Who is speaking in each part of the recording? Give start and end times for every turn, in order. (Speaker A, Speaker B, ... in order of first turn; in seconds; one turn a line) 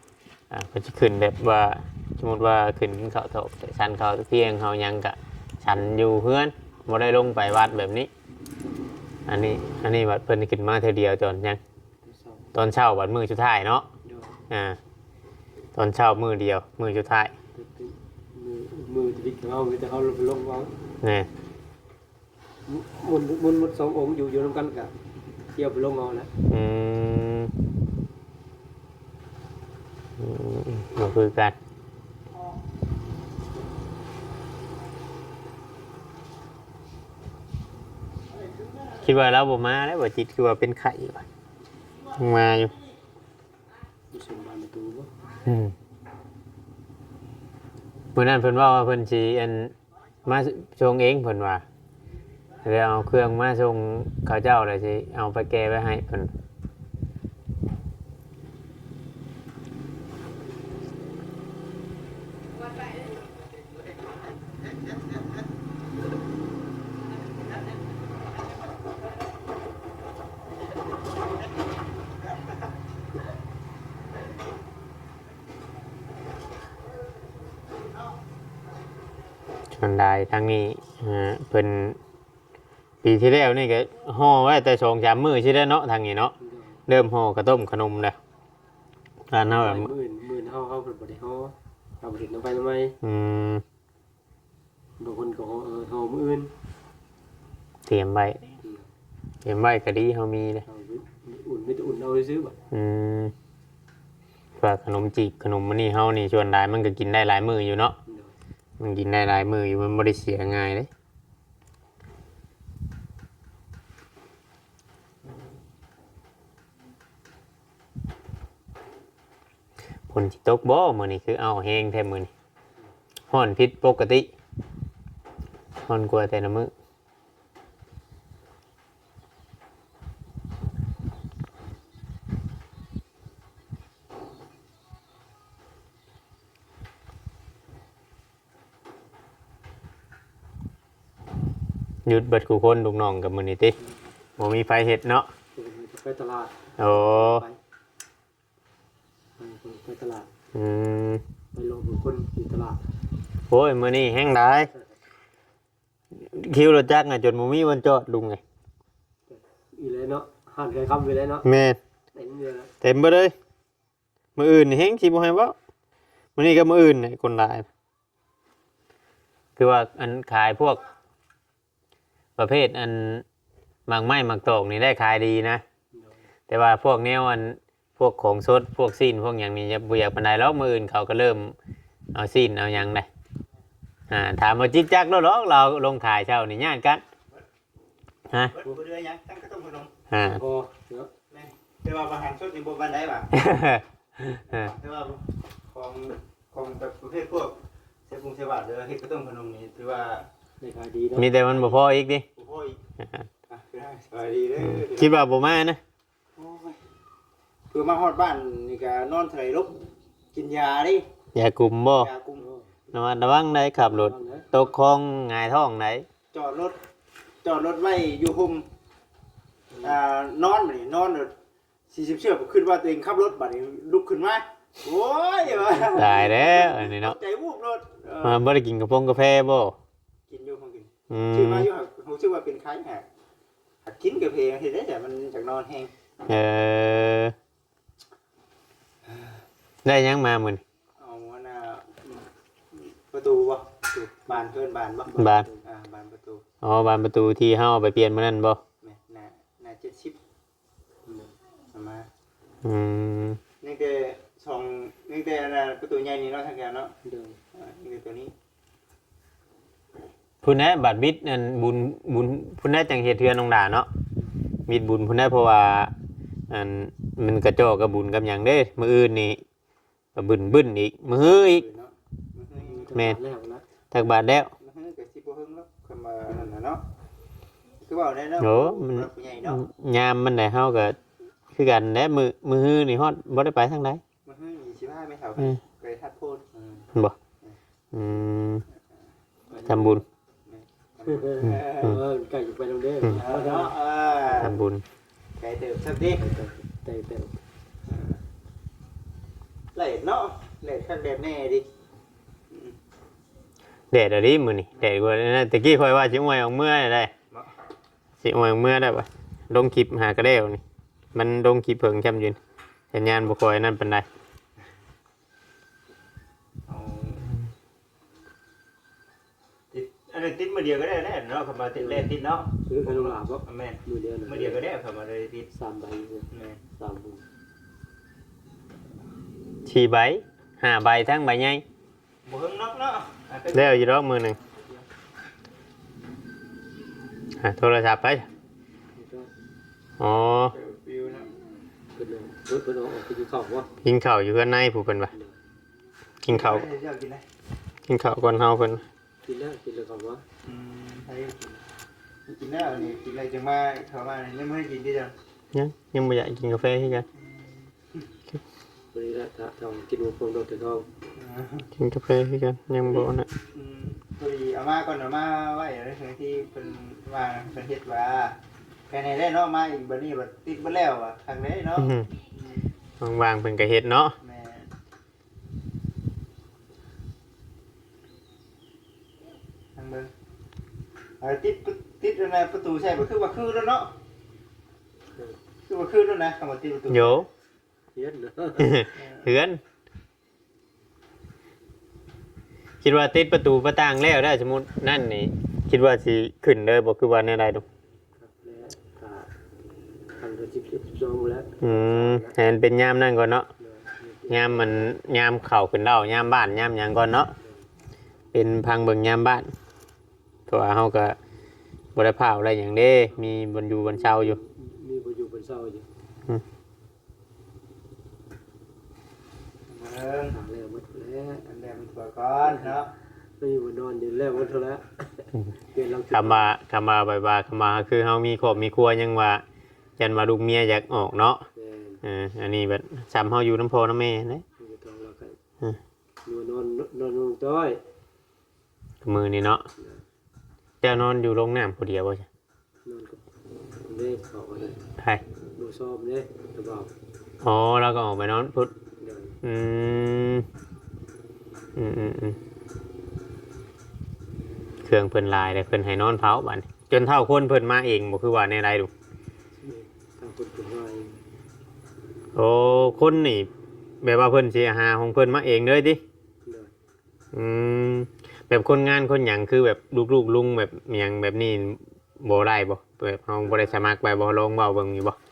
Speaker A: 0.5-8.1
Speaker A: 9.3-11.6
Speaker B: 12.0-12.5
Speaker A: 12.5-13.8
Speaker B: 14.0-14.4
Speaker A: 14.5-14.8
Speaker A: 15.7-17.3
Speaker B: 17.5-20.8
Speaker A: 21.0-21.3
Speaker B: 22.7-24.9
Speaker B: 25.5-26.3
Speaker A: 26.5-27.5
Speaker A: 30.2-31.6
Speaker A: 39.0-41.3
Speaker A: 42.1-42.7
Speaker B: 44.1-45.1
Speaker A: 45.5-45.7
Speaker A: 48.1-51.6
Speaker A: 52.6-56.3
Speaker A: 79.7-82.0
Speaker A: 83.0-86.3
Speaker B: 86.4-86.8
Speaker A: 86.9-88.2
Speaker A: 89.3-89.9
Speaker B: 89.5-93.0
Speaker A: 93.0-93.6
Speaker B: 95.0-96.5
Speaker A: 97.9-98.5
Speaker B: 98.6-98.9
Speaker A: 99.4-100.6
Speaker B: 100.7-102.6
Speaker A: 102.7-103.3
Speaker A: 104.6-108.0
Speaker B: 108.0-108.3
Speaker A: 108.8-110.9
Speaker A: 120.1-122.3
Speaker A: 123.3-124.3
Speaker A: 125.8-126.7
Speaker A: 142.1-143.7
Speaker A: 144.4-145.3
Speaker B: 145.5-147.6
Speaker A: 146.8-147.4
Speaker B: 149.4-150.3
Speaker A: 150.5-151.2
Speaker B: 151.5-152.8
Speaker A: 153.5-154.7
Speaker A: 156.2-158.4
Speaker B: 159.3-161.4
Speaker A: 161.4-161.8
Speaker B: 162.1-162.7
Speaker A: 162.8-163.3
Speaker A: 164.3-165.5
Speaker A: 166.3-167.7
Speaker A: 169.6-170.8
Speaker A: 172.4-173.2
Speaker A: 173.9-175.6
Speaker B: 175.9-176.2
Speaker A: 176.5-181.6
Speaker A: 182.1-183.1
Speaker A: 184.1-187.0
Speaker A: 188.3-188.6
Speaker C: 188.3-189.9
Speaker A: 190.1-190.4
Speaker B: 190.2-191.1
Speaker C: 191.3-193.3
Speaker A: 193.3-194.7
Speaker C: 194.5-200.3
Speaker B: 200.6-201.3
Speaker A: 201.2-202.2
Speaker C: 201.4-201.8
Speaker C: 202.3-202.8
Speaker A: 203.0-203.3
Speaker C: 203.5-205.2
Speaker A: 204.6-205.8
Speaker C: 206.3-206.8
Speaker C: 207.7-211.1
Speaker A: 211.3-212.1
Speaker C: 212.0-212.4
Speaker B: 212.4-212.8
Speaker A: 212.9-216.1
Speaker B: 213.8-214.5
Speaker C: 216.3-216.8
Speaker C: 217.4-218.7
Speaker C: 219.8-221.3
Speaker C: 221.9-228.4
Speaker B: 225.4-226.1
Speaker A: 225.9-227.2
Speaker A: 228.2-229.8
Speaker C: 230.3-233.1
Speaker A: 231.1-231.7
Speaker C: 233.8-235.9
Speaker A: 236.2-237.3
Speaker C: 239.0-239.4
Speaker A: 239.8-240.6
Speaker C: 241.0-246.4
Speaker B: 245.1-245.6
Speaker A: 245.1-245.5
Speaker A: 246.6-248.6
Speaker C: 248.8-250.2
Speaker B: 251.1-251.3
Speaker C: 251.7-252.1
Speaker A: 252.6-253.4
Speaker C: 253.6-256.9
Speaker B: 257.0-257.4
Speaker C: 257.5-258.3
Speaker A: 260.4-263.9
Speaker A: 264.7-265.9
Speaker A: 266.5-269.4
Speaker A: 270.1-271.6
Speaker C: 271.1-272.9
Speaker B: 272.6-273.6
Speaker A: 273.9-274.5
Speaker C: 274.6-276.8
Speaker C: 277.8-279.6
Speaker A: 278.4-281.0
Speaker A: 281.5-284.0
Speaker C: 284.2-286.9
Speaker A: 287.9-288.6
Speaker B: 289.5-290.0
Speaker A: 289.6-290.0
Speaker C: 290.4-292.0
Speaker B: 291.1-294.5
Speaker A: 291.5-292.0
Speaker C: 293.2-294.5
Speaker A: 294.4-294.8
Speaker C: 295.4-296.2
Speaker B: 296.2-297.4
Speaker C: 297.9-298.2
Speaker C: 299.7-301.7
Speaker C: 302.5-302.8
Speaker A: 303.9-307.1
Speaker A: 308.2-310.6
Speaker A: 311.1-312.4
Speaker A: 312.9-314.1
Speaker C: 316.7-317.3
Speaker C: 319.7-325.5
Speaker B: 321.8-322.1
Speaker B: 322.6-324.6
Speaker B: 325.5-327.2
Speaker C: 326.3-326.6
Speaker A: 329.6-331.6
Speaker C: 332.2-334.8
Speaker A: 333.5-334.4
Speaker A: 337.4-338.2
Speaker B: 338.9-339.3
Speaker A: 340.0-340.5
Speaker C: 340.5-341.3
Speaker B: 341.9-343.7
Speaker A: 343.8-345.1
Speaker A: 346.2-346.6
Speaker C: 346.3-347.2
Speaker A: 347.9-348.9
Speaker B: 349.2-350.2
Speaker C: 350.4-351.6
Speaker C: 352.3-355.1
Speaker A: 355.5-357.1
Speaker C: 357.1-358.1
Speaker B: 358.9-360.9
Speaker C: 361.1-361.7
Speaker A: 361.8-363.3
Speaker C: 363.5-368.4
Speaker C: 368.9-372.7
Speaker A: 371.8-372.1
Speaker A: 373.0-374.1
Speaker C: 374.2-374.7
Speaker C: 379.8-380.1
Speaker C: 381.2-384.0
Speaker C: 385.7-387.2
Speaker A: 386.9-387.3
Speaker B: 387.9-388.8
Speaker A: 388.6-389.6
Speaker C: 388.9-389.3
Speaker A: 392.8-397.6
Speaker B: 398.2-399.3
Speaker B: 400.2-402.4
Speaker A: 401.6-403.5
Speaker B: 403.6-404.9
Speaker A: 404.3-407.3
Speaker B: 407.4-407.7
Speaker A: 408.3-409.5
Speaker A: 410.5-411.2
Speaker A: 411.9-414.4
Speaker B: 413.1-415.9
Speaker C: 419.7-420.4
Speaker B: 420.3-421.4
Speaker C: 421.4-422.9
Speaker B: 423.4-426.5
Speaker A: 426.1-429.4
Speaker A: 430.0-431.5
Speaker B: 431.6-432.0
Speaker A: 432.0-434.4
Speaker B: 434.6-435.4
Speaker B: 436.2-437.8
Speaker A: 439.0-439.6
Speaker B: 439.8-440.0
Speaker A: 440.8-442.3
Speaker B: 442.9-443.2
Speaker B: 443.8-444.8
Speaker B: 445.6-446.9
Speaker A: 447.4-448.7
Speaker B: 449.0-449.4
Speaker A: 449.4-450.5
Speaker A: 451.8-452.4
Speaker A: 454.8-458.9
Speaker B: 459.6-461.2
Speaker A: 462.3-463.5
Speaker A: 464.0-466.0
Speaker B: 466.4-466.7
Speaker A: 467.3-475.2
Speaker B: 473.4-473.8